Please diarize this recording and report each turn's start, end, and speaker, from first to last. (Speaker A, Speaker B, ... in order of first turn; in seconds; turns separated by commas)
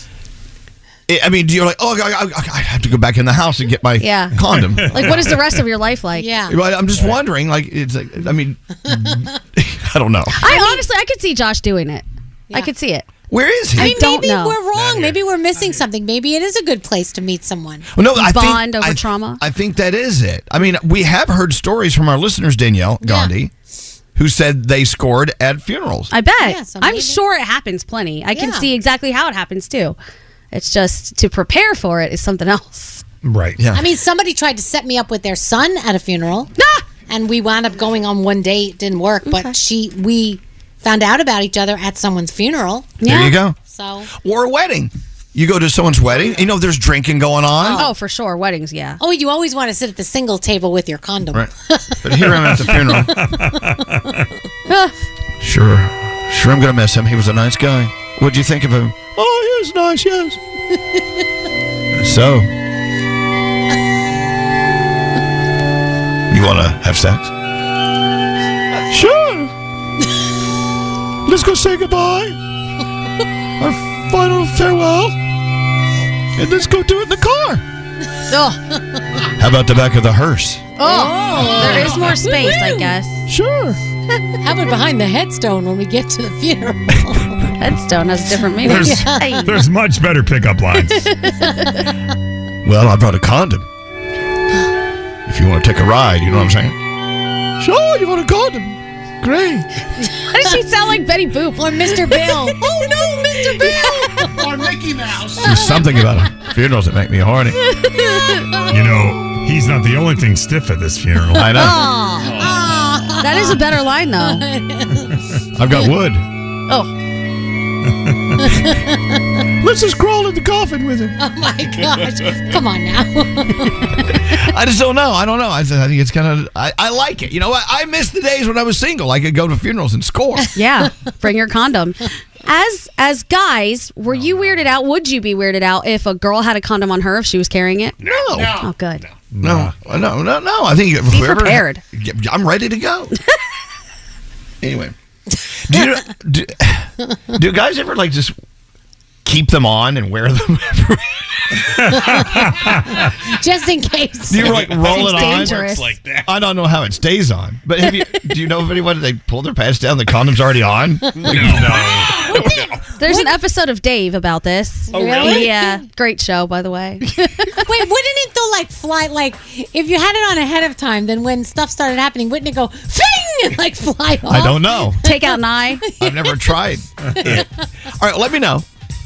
Speaker A: 1.1-5.2, Speaker B: 4.0-6.3, Speaker C: 4.7-5.0, Speaker D: 6.2-6.6, Speaker A: 6.5-10.4, Speaker D: 10.4-10.8, Speaker B: 10.4-13.1, Speaker A: 13.3-13.9, Speaker B: 13.8-14.6, Speaker D: 13.8-17.9, Speaker C: 14.7-15.2, Speaker A: 17.9-23.5, Speaker B: 18.2-19.4, Speaker D: 23.0-23.3, Speaker A: 24.1-26.1, Speaker B: 26.1-30.0, Speaker D: 26.4-27.2, Speaker D: 28.3-28.7, Speaker B: 30.5-33.0, Speaker C: 33.2-33.6, Speaker A: 33.6-33.9, Speaker D: 33.7-36.5, Speaker B: 36.6-36.8, Speaker D: 37.1-43.0, Speaker B: 39.3-39.6, Speaker B: 43.0-43.4, Speaker A: 43.0-43.6, Speaker D: 43.7-44.1, Speaker A: 44.1-47.9, Speaker D: 47.6-47.9, Speaker B: 47.7-49.0, Speaker D: 49.0-53.3, Speaker A: 52.0-53.2, Speaker C: 52.9-54.2, Speaker B: 54.7-54.9, Speaker A: 55.4-60.4, Speaker A: 62.0-62.5, Speaker A: 66.3-67.3, Speaker A: 68.9-69.5, Speaker A: 71.3-72.4, Speaker A: 73.6-75.2, Speaker A: 76.4-77.6, Speaker B: 78.3-78.7, Speaker A: 79.3-80.6, Speaker B: 80.8-83.3, Speaker D: 80.8-82.8, Speaker A: 83.3-83.8, Speaker D: 84.2-87.5, Speaker B: 87.6-89.5, Speaker D: 88.6-89.5, Speaker C: 88.6-91.2, Speaker B: 91.1-91.8, Speaker A: 92.6-93.7, Speaker A: 95.3-96.8, Speaker A: 97.6-99.7, Speaker B: 100.2-104.2, Speaker D: 101.6-104.3, Speaker E: 104.3-105.8, Speaker A: 105.4-107.6, Speaker B: 107.7-108.5, Speaker D: 107.9-108.6, Speaker C: 108.7-111.6, Speaker A: 111.3-111.9, Speaker B: 111.5-112.4, Speaker D: 112.2-113.6, Speaker C: 112.2-112.6, Speaker B: 113.2-114.5, Speaker D: 114.2-115.2, Speaker A: 115.5-116.3, Speaker D: 118.5-118.9, Speaker A: 119.6-121.2, Speaker D: 121.2-124.1, Speaker A: 124.1-130.5, Speaker B: 130.6-138.0, Speaker C: 134.1-134.8, Speaker C: 138.0-139.7, Speaker A: 138.0-138.6, Speaker E: 138.3-138.7, Speaker B: 138.5-139.1, Speaker A: 139.4-143.1, Speaker B: 141.1-141.8, Speaker A: 144.6-144.9, Speaker A: 145.6-148.4, Speaker A: 149.2-151.6, Speaker D: 151.8-154.6, Speaker A: 154.3-155.6, Speaker C: 154.5-156.3, Speaker B: 154.8-156.0, Speaker A: 156.2-162.5, Speaker C: 161.3-162.3, Speaker D: 161.4-163.3, Speaker B: 162.9-167.7, Speaker D: 164.9-165.4, Speaker C: 165.0-165.4, Speaker D: 167.6-176.5, Speaker A: 174.3-175.0, Speaker B: 174.4-175.8, Speaker A: 176.0-178.7